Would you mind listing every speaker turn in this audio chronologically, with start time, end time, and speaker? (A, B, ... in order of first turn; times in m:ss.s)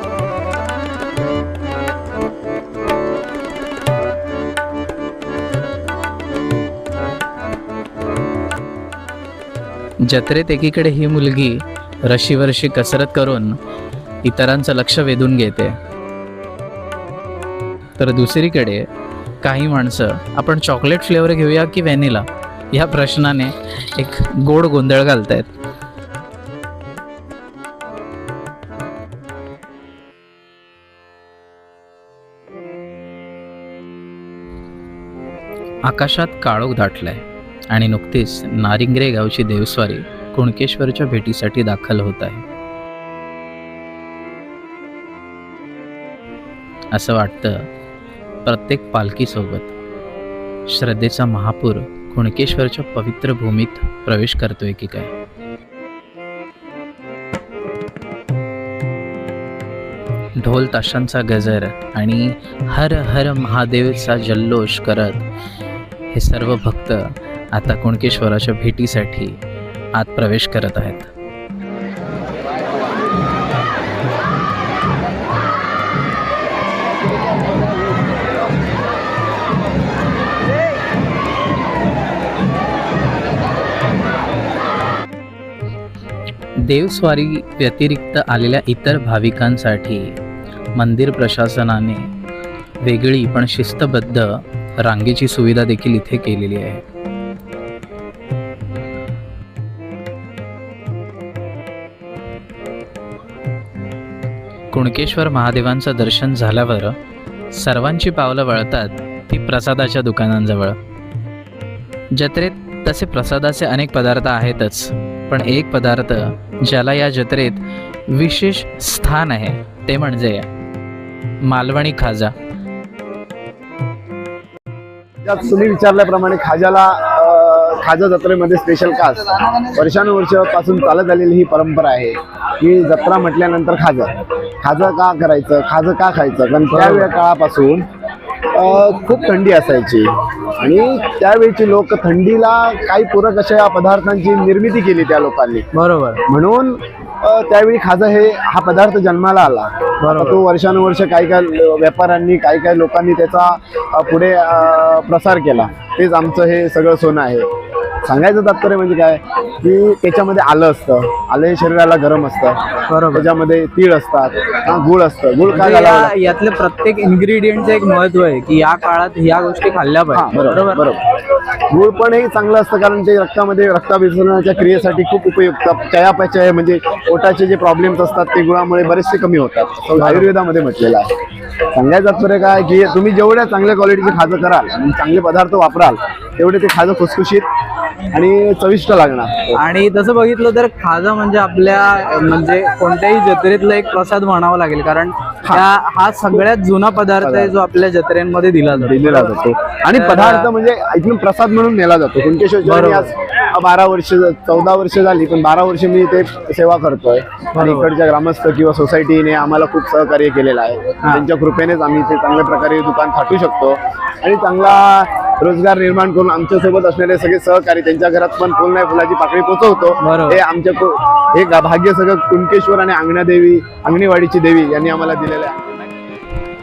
0:10.0-0:13.6 A
0:14.2-0:15.8 A
0:18.0-0:18.9 A
0:19.4-0:25.5 A
0:35.9-0:42.4 A
0:46.9-0:47.7 A
0:48.4-0:49.8 A
0:50.7-0:55.1 A
1:00.4-1:05.2 A
1:06.1-1:09.4 A
1:10.0-1:11.1 A
1:26.6-1:30.2 A
1:30.8-1:32.1 A
1:32.8-1:36.8 A
1:44.7-1:47.0 A
1:47.5-1:50.8 A
1:52.1-2:00.5 A
2:01.4-2:02.3 A
2:05.2-2:17.9 B
2:16.7-2:17.1 C
2:18.5-2:25.7 B
2:25.7-2:26.2 C
2:26.3-2:37.5 B
2:30.0-2:30.4 C
2:38.0-2:46.1 B
2:42.9-2:43.3 C
2:45.5-2:51.0 C
2:50.1-2:51.0 B
2:51.7-3:01.1 B
3:00.0-3:00.3 C
3:01.7-3:07.5 B
3:08.1-3:09.6 B
3:09.5-3:19.4 C
3:17.2-3:17.6 B
3:18.7-3:45.7 B
3:19.9-3:20.5 C
3:22.6-3:23.1 C
3:27.6-3:27.9 C
3:40.0-3:40.4 C